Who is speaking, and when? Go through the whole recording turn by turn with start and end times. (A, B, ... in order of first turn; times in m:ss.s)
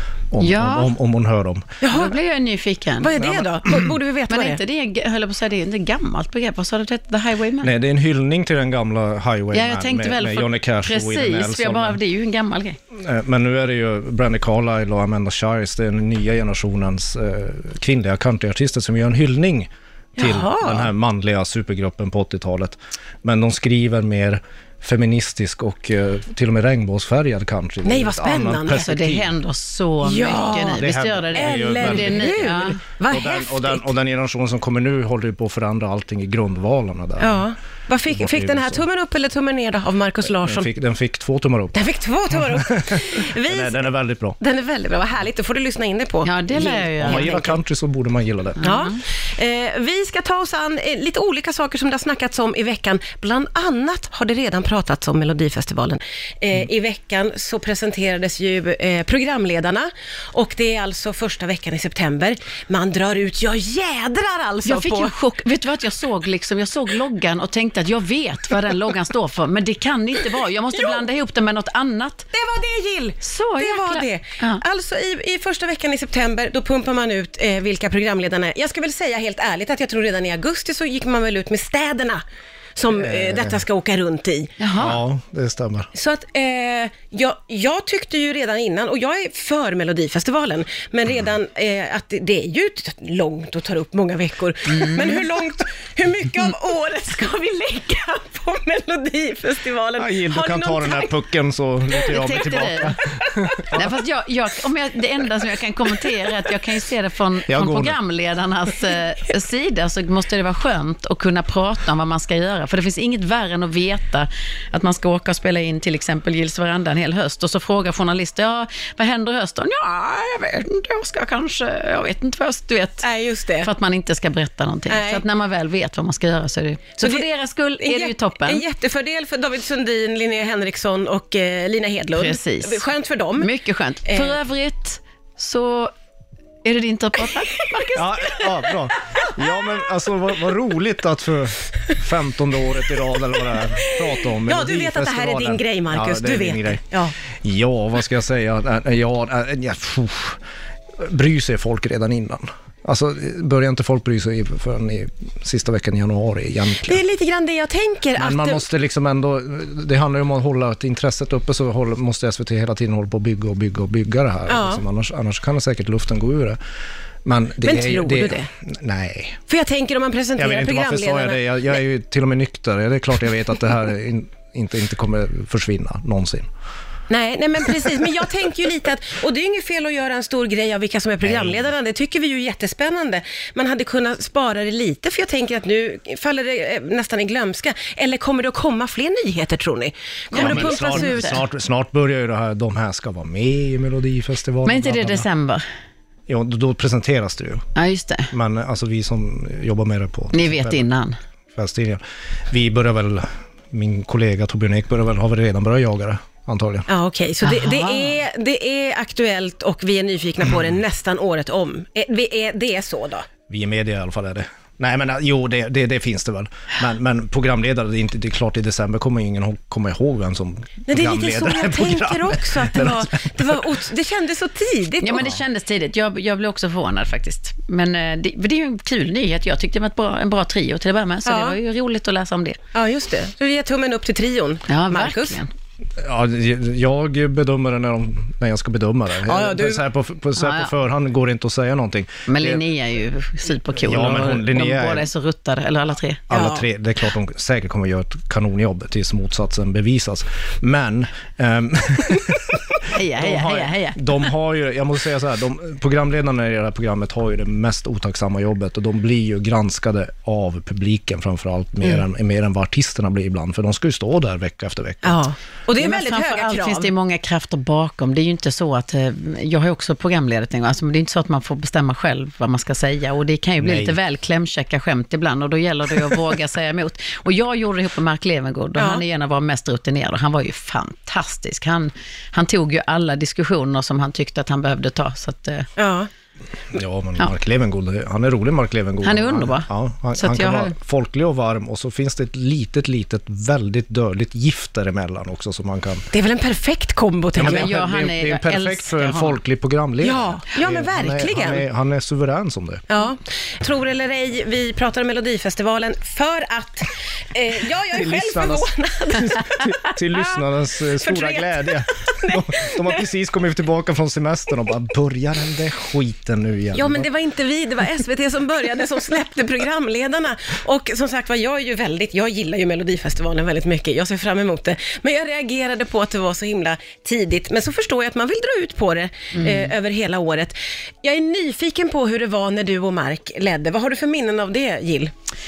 0:00.3-0:01.8 A
0:00.4-0:00.9 B
0:01.8-0:02.1 C
0:01.8-0:03.2 B
0:03.0-0:04.6 C
0:03.2-0:03.9 A
0:04.3-0:07.7 B
0:07.6-0:12.0 A
0:09.5-0:12.8 B
0:12.9-0:29.3 A
0:20.2-0:20.9 C
0:27.8-0:28.9 C
0:28.8-0:32.8 B
0:30.0-0:33.9 C
0:30.8-0:32.5 A
0:33.1-0:37.4 A
0:37.2-0:40.7 C
0:38.1-0:38.8 A
0:40.4-0:41.8 A
0:41.7-0:43.8 C
0:42.3-0:44.4 A
0:44.4-0:47.6 C
0:46.2-0:47.3 B
0:47.0-0:48.6 A
0:48.6-0:49.0 B
0:48.6-1:05.1 C
1:04.6-1:12.3 B
1:12.3-1:22.2 C
1:13.2-1:14.6 B
1:22.8-1:24.6 C
1:23.0-1:23.6 A
1:24.6-1:25.0 B
1:24.8-1:25.9 A
1:25.9-1:41.1 C
1:34.7-1:35.2 B
1:40.0-1:43.8 A
1:42.0-1:43.0 B
1:43.7-2:03.0 B
1:47.5-1:48.0 A
2:03.0-2:03.7 C
2:03.6-2:08.6 B
2:04.9-2:05.2 C
2:07.8-2:13.5 C
2:12.2-2:12.8 B
2:13.4-2:15.9 B
2:14.0-2:14.4 C
2:16.6-2:18.4 B
2:17.9-2:26.8 A
2:23.8-2:27.1 C
2:27.3-2:30.4 A
2:31.0-2:37.0 A
2:36.8-2:38.6 C
2:38.2-2:46.6 A
2:44.5-2:44.8 C
2:47.2-2:49.4 A
2:47.6-2:48.5 C
2:49.5-2:51.8 C
2:50.4-2:56.5 A
2:57.1-3:11.4 C
3:01.2-3:01.6 A
3:10.3-3:11.4 B
3:10.3-3:15.2 A
3:14.6-3:15.6 B
3:16.3-3:17.6 A
3:17.7-3:18.3 B
3:18.3-3:20.8 A
3:20.3-3:21.2 B
3:21.5-3:26.9 A
3:26.9-3:33.3 C
3:27.4-3:28.2 B
3:33.5-3:43.7 A
3:40.9-3:45.3 C
3:45.0-3:52.6 B
3:51.2-3:51.6 C
3:52.7-3:55.4 C
3:54.7-3:55.5 B
3:56.0-4:02.6 A
3:59.2-3:59.8 C
4:00.4-4:00.7 B
4:02.3-4:06.2 B
4:03.8-4:05.1 A
4:06.3-4:25.2 A
4:06.3-4:06.6 C
4:12.9-4:14.1 B
4:25.0-4:26.9 C
4:25.8-4:45.7 B
4:33.6-4:34.0 A
4:38.8-4:39.0 C
4:45.8-4:46.1 C
4:46.7-4:56.1 A
4:49.0-4:50.7 B
4:56.1-4:57.7 C
4:57.3-5:02.8 A
4:57.4-4:59.4 B
5:00.0-5:01.6 C
5:02.9-5:13.0 C
5:07.9-5:17.1 A
5:16.7-5:35.1 C
5:29.3-5:29.7 B